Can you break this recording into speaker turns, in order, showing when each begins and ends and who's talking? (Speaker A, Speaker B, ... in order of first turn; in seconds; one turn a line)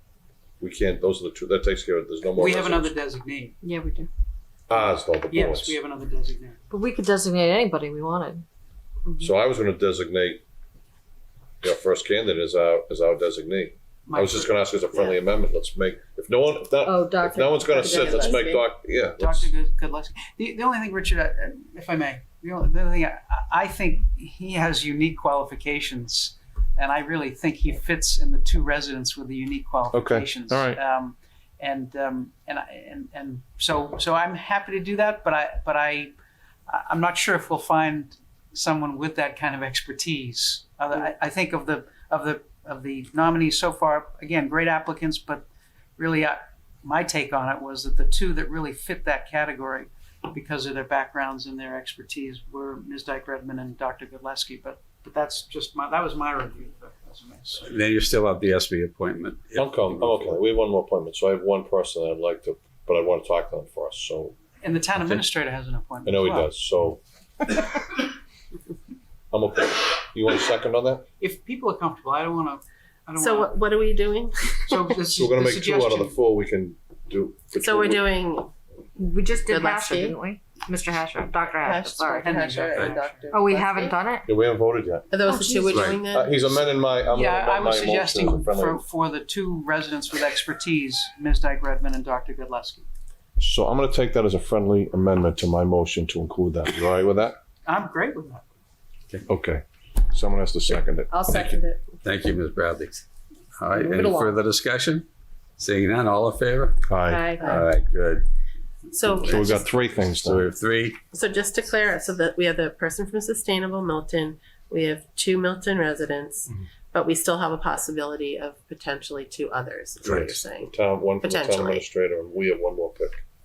Speaker A: 0.6-2.9
Speaker B: 2.4-3.6
Speaker C: 3.6-4.1
Speaker A: 4.7-5.8
Speaker B: 5.3-6.6
Speaker C: 6.7-8.4
Speaker A: 9.2-10.4
Speaker A: 11.6-19.5
Speaker B: 14.1-14.5
Speaker C: 16.8-18.4
Speaker D: 17.7-18.6
Speaker B: 19.2-36.1
Speaker A: 29.9-30.8
Speaker B: 36.7-45.5
Speaker B: 46.0-57.7
Speaker E: 57.6-60.4
Speaker A: 59.5-64.3
Speaker B: 64.6-66.5
Speaker A: 66.0-67.0
Speaker A: 69.3-71.0
Speaker B: 71.2-73.6
Speaker D: 73.2-74.9
Speaker B: 74.6-76.2
Speaker A: 75.1-78.0
Speaker D: 77.6-78.5
Speaker C: 79.0-82.4
Speaker D: 79.5-80.2
Speaker D: 81.6-84.0
Speaker B: 82.2-83.3
Speaker C: 83.3-84.3
Speaker A: 84.2-85.1
Speaker D: 85.1-86.3
Speaker B: 85.3-85.8
Speaker E: 85.7-86.0
Speaker A: 86.1-88.8
Speaker B: 87.1-92.8
Speaker A: 93.4-97.4
Speaker B: 97.7-98.4
Speaker A: 99.3-101.6
Speaker D: 101.1-101.9
Speaker E: 102.0-105.1
Speaker C: 103.8-104.4
Speaker E: 105.6-106.9
Speaker A: 106.9-107.4
Speaker C: 107.0-107.5
Speaker E: 107.5-108.2
Speaker D: 108.9-109.8
Speaker A: 109.2-110.5
Speaker E: 110.1-111.0
Speaker D: 111.1-121.8
Speaker A: 120.0-123.2